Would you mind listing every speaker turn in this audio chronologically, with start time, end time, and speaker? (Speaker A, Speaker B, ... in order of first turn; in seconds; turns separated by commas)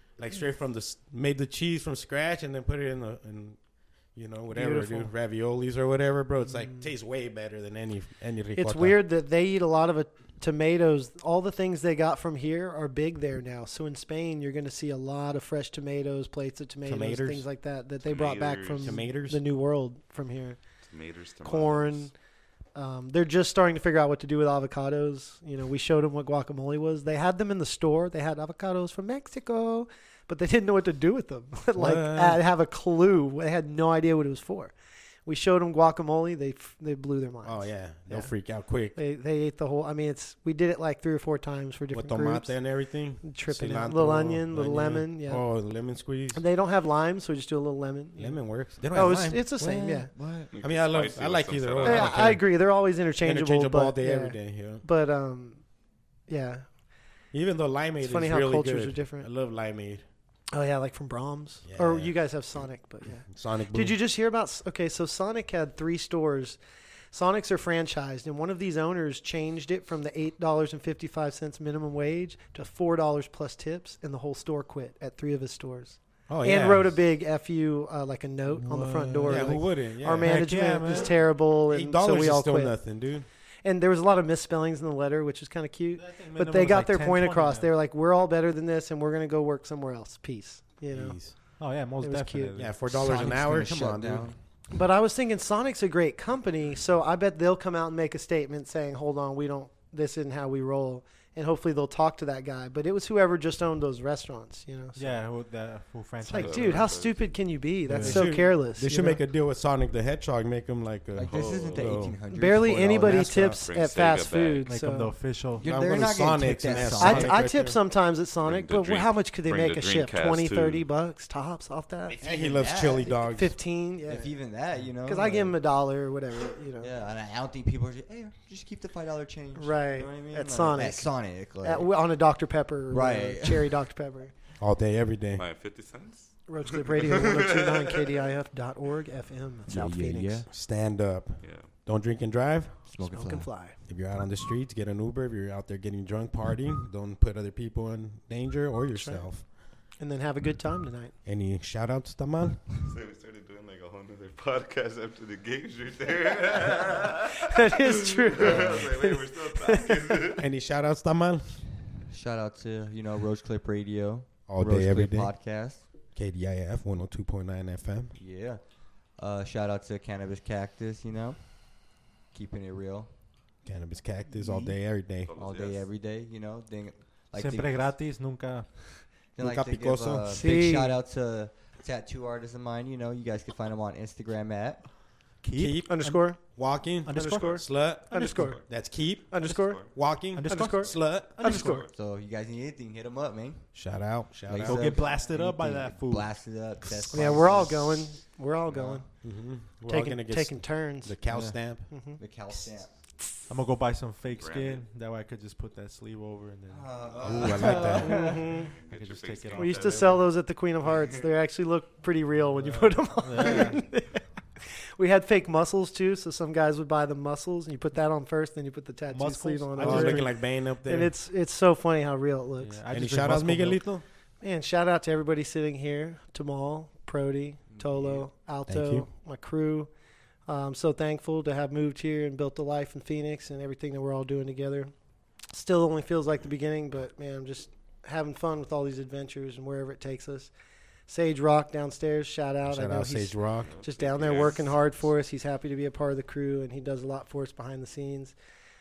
Speaker A: 0.1-3.6, Speaker A: 4.1-9.0, Speaker B: 4.5-5.1, Speaker B: 6.6-6.9, Speaker B: 8.6-20.6, Speaker A: 16.9-17.4, Speaker C: 18.1-18.9, Speaker A: 18.8-19.4, Speaker C: 20.8-22.1, Speaker B: 21.4-22.1, Speaker B: 22.8-34.7, Speaker A: 31.8-32.4, Speaker B: 35.3-38.3, Speaker A: 37.4-39.0, Speaker B: 38.9-42.6, Speaker A: 41.9-46.4, Speaker B: 43.2-45.6, Speaker B: 46.3-50.1, Speaker A: 48.2-49.6, Speaker D: 48.9-50.5, Speaker C: 50.5-52.3, Speaker A: 50.5-54.9, Speaker B: 51.8-55.7, Speaker B: 56.3-56.7, Speaker A: 57.3-60.0, Speaker B: 58.0-59.3, Speaker B: 60.5-66.6, Speaker A: 61.6-62.4, Speaker A: 63.2-64.0, Speaker B: 67.1-82.9, Speaker A: 76.3-77.0, Speaker A: 78.5-83.3, Speaker E: 79.0-79.5, Speaker E: 80.2-81.2, Speaker B: 83.6-92.8, Speaker E: 86.0-87.7, Speaker A: 90.9-91.4, Speaker E: 91.6-93.0, Speaker A: 92.6-94.3, Speaker D: 92.9-94.4, Speaker B: 94.7-105.2, Speaker E: 105.0-106.9, Speaker B: 106.2-109.2, Speaker C: 106.3-107.3, Speaker E: 107.9-108.4, Speaker A: 108.0-112.2, Speaker D: 111.2-113.6, Speaker C: 111.3-112.0, Speaker B: 112.3-115.1, Speaker A: 113.0-113.5, Speaker C: 113.3-114.7, Speaker E: 114.7-116.1, Speaker D: 115.5-117.5, Speaker A: 115.6-117.8, Speaker B: 117.0-126.9, Speaker C: 118.4-120.8, Speaker D: 122.2-123.3, Speaker A: 122.2-123.6, Speaker D: 124.1-125.6, Speaker D: 126.8-132.1, Speaker B: 129.6-134.3, Speaker D: 132.9-133.9, Speaker A: 134.6-135.5, Speaker C: 135.3-137.6, Speaker B: 136.5-140.5, Speaker D: 139.7-140.5, Speaker A: 140.5-142.9, Speaker C: 141.4-141.7, Speaker D: 142.8-143.6, Speaker B: 143.0-143.8, Speaker A: 143.8-149.5, Speaker B: 148.9-151.2, Speaker A: 151.2-152.6, Speaker C: 152.8-157.4, Speaker B: 157.5-160.3, Speaker C: 158.4-160.4, Speaker D: 158.4-158.9, Speaker A: 160.4-161.6, Speaker D: 162.1-165.9, Speaker A: 164.5-168.2, Speaker D: 168.2-173.1, Speaker A: 173.6-175.3, Speaker C: 175.3-175.9, Speaker D: 175.4-178.0, Speaker E: 177.3-179.3, Speaker D: 179.3-184.9, Speaker A: 179.4-180.6, Speaker B: 180.3-181.0, Speaker E: 185.4-186.4, Speaker A: 185.5-191.4, Speaker B: 185.8-191.9, Speaker E: 187.1-188.4, Speaker C: 187.4-187.7, Speaker C: 188.3-189.9, Speaker E: 190.3-191.0, Speaker C: 191.2-191.9, Speaker D: 191.4-193.9, Speaker A: 193.7-195.1, Speaker D: 194.4-199.1, Speaker E: 194.6-196.7, Speaker A: 197.1-197.3, Speaker B: 197.1-199.3, Speaker A: 199.2-201.9, Speaker B: 199.9-201.2, Speaker D: 201.3-203.0, Speaker B: 201.9-202.4, Speaker E: 203.5-210.2, Speaker C: 204.3-204.8, Speaker D: 206.7-208.4, Speaker C: 207.0-207.6, Speaker A: 207.2-208.3, Speaker B: 208.0-208.7, Speaker C: 208.5-211.2, Speaker B: 209.5-214.3, Speaker E: 212.6-213.9, Speaker B: 215.0-222.8, Speaker E: 219.1-220.4, Speaker A: 219.8-221.1, Speaker E: 222.6-223.9, Speaker A: 222.9-224.0, Speaker B: 224.4-229.9, Speaker D: 227.7-228.3, Speaker A: 228.7-229.1, Speaker B: 230.5-240.5, Speaker B: 241.1-248.4, Speaker A: 242.7-243.8, Speaker C: 243.6-245.1